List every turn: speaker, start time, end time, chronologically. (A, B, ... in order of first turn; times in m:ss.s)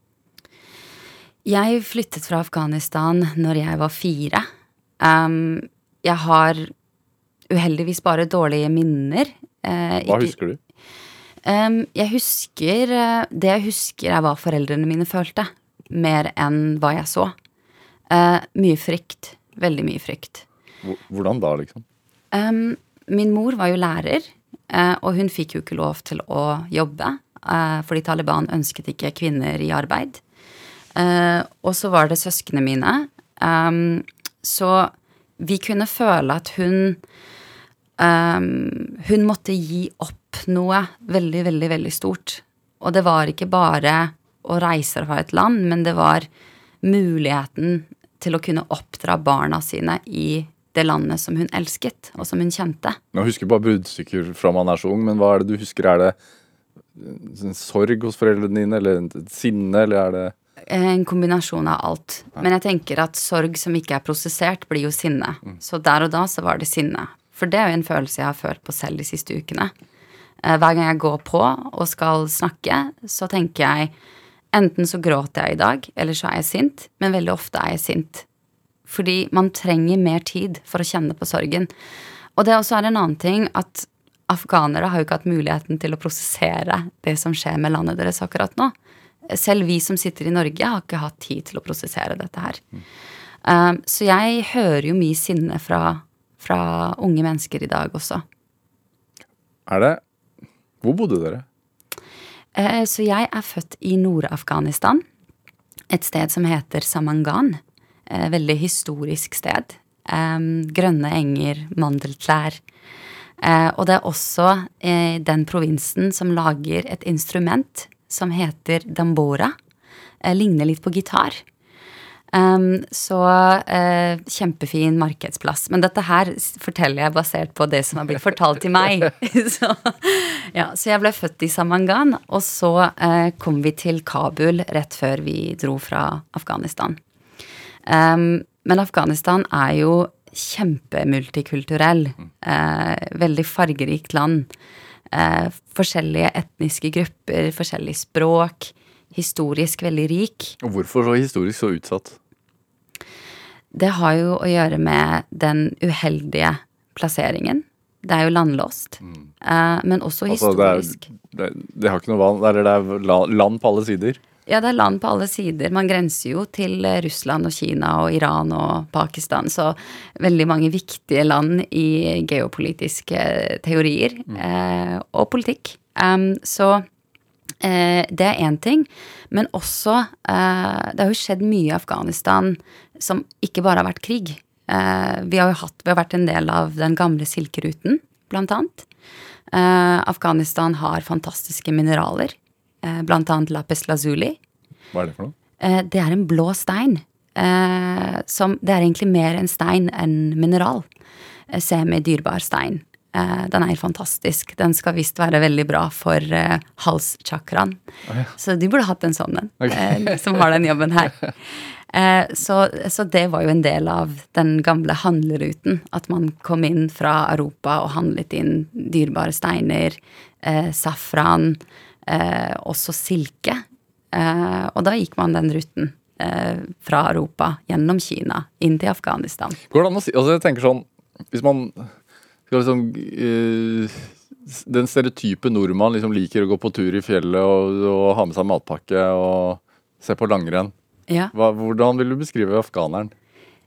0:01.4-0:04.4 A
0:05.0-0:06.7 A
0:07.5-0:10.3 A
0:10.0-0:10.6 B
0:11.4-0:17.3 A
0:18.1-0:20.4 A
0:20.8-0:21.8 B
0:22.3-0:30.2 A
0:31.0-0:37.0 A
0:38.0-0:46.3 A
0:46.8-0:53.0 A
0:53.1-0:56.2 B
0:56.9-1:00.3 B
1:00.7-1:09.7 A
1:10.4-1:13.9 A
1:14.5-1:18.2 A
1:18.9-1:21.7 A
1:22.4-1:28.7 A
1:29.3-1:32.6 A
1:33.4-1:38.2 A
1:39.7-1:40.0 B
1:40.8-1:41.4 B
1:42.5-1:45.0 A
1:45.9-1:52.6 A
1:53.4-1:59.5 A
2:00.2-2:01.4 A
2:02.3-2:17.0 A
2:17.9-2:24.5 A
2:25.1-2:30.6 A
2:30.6-2:32.2 B
2:33.7-2:41.1 A
2:40.3-2:44.2 B
2:44.4-2:56.8 A
2:57.6-3:08.8 A
3:09.5-3:14.4 A
3:14.9-3:15.3 B
3:15.6-3:20.8 A
3:21.5-3:27.8 A
3:28.3-3:49.6 A
3:29.6-3:30.2 B
3:49.7-3:51.9 B
3:52.5-4:00.7 B
4:01.3-4:03.1 B